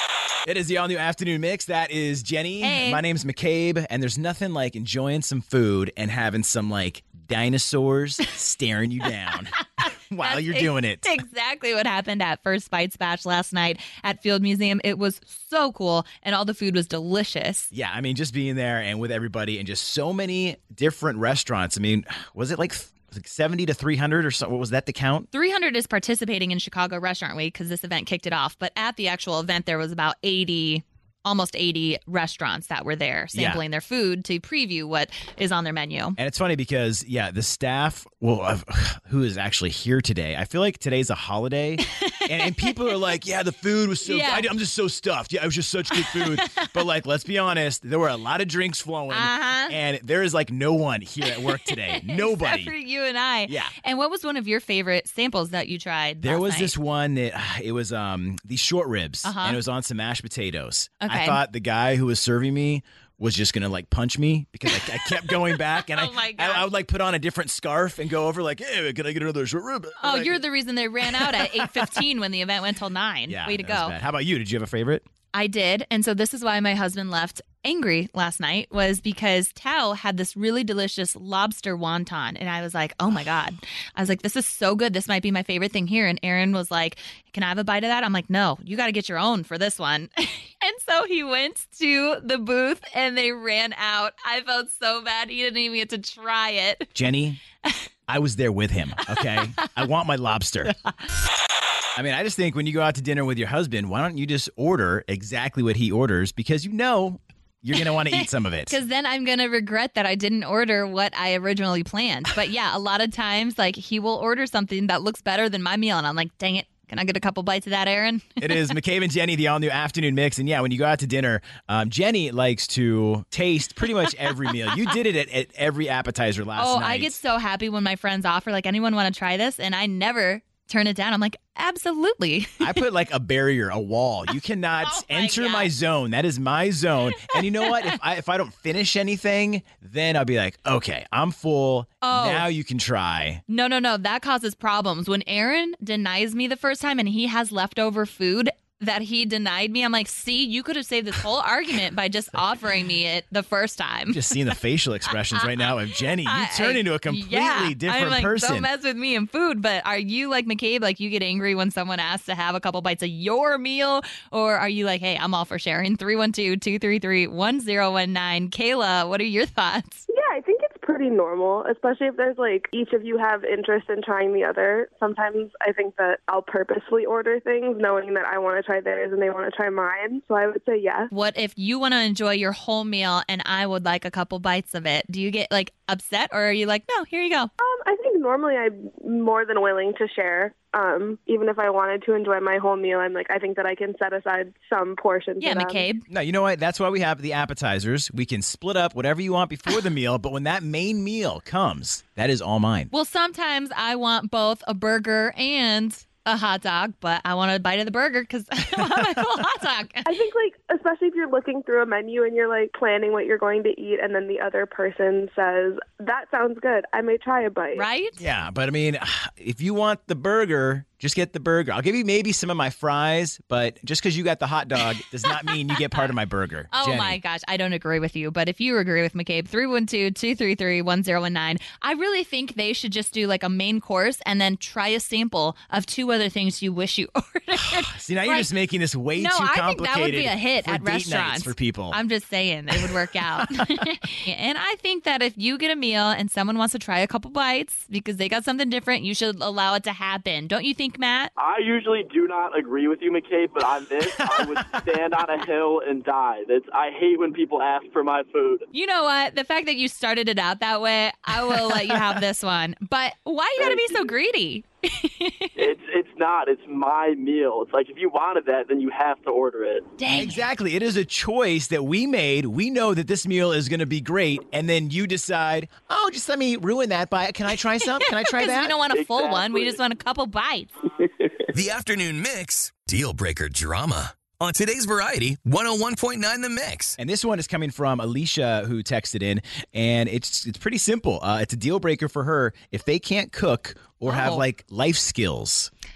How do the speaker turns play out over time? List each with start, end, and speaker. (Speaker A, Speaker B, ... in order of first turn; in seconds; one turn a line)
Speaker A: 0.5-9.6
Speaker B: 2.6-3.0
Speaker A: 10.1-11.2
Speaker B: 10.2-17.7
Speaker A: 17.7-25.3
Speaker B: 25.3-36.2
Speaker A: 33.3-33.6
Speaker A: 36.2-52.7
Speaker B: 41.9-42.8
Speaker B: 44.0-44.5
Speaker B: 46.1-46.8
Speaker B: 49.1-49.8
Speaker B: 51.2-56.8
Speaker A: 53.5-53.8
Speaker A: 56.2-70.4
Speaker B: 59.2-59.6
Speaker B: 61.0-61.4
Speaker B: 65.0-66.7
Speaker B: 70.0-74.0
Speaker A: 71.1-71.9
Speaker A: 73.3-75.0
Speaker B: 75.3-96.9
Speaker A: 97.0-97.4
Speaker A: 98.1-100.8
Speaker A: 102.0-108.8
Speaker B: 107.8-118.8
Speaker A: 118.4-127.2
Speaker B: 126.6-132.6
Speaker A: 132.6-143.4
Speaker B: 134.8-135.7
Speaker B: 137.3-137.8
Speaker B: 142.0-142.5
Speaker B: 143.5-154.4
Speaker A: 154.1-158.7
Speaker B: 155.3-170.1
Speaker C: 170.1-181.1
Speaker B: 181.1-187.5
Speaker C: 187.6-195.9
Speaker B: 195.4-196.1
Speaker A: 196.1-202.9
Speaker B: 202.9-210.1
Speaker C: 210.1-217.8
Speaker B: 217.8-218.2
Speaker A: 218.2-227.2
Speaker B: 225.5-225.8
Speaker B: 226.7-238.5
Speaker A: 237.6-242.0
Speaker B: 239.1-251.3
Speaker A: 242.8-243.4
Speaker D: 251.4-258.7
Speaker A: 254.2-254.8
Speaker B: 258.7-265.7
Speaker A: 261.3-262.2
Speaker D: 263.6-264.1
Speaker D: 265.6-269.9
Speaker B: 270.0-270.4
Speaker A: 270.1-278.8
Speaker B: 277.9-280.7
Speaker D: 278.9-279.8
Speaker E: 281.5-287.0
Speaker A: 287.0-295.7
Speaker B: 294.1-294.4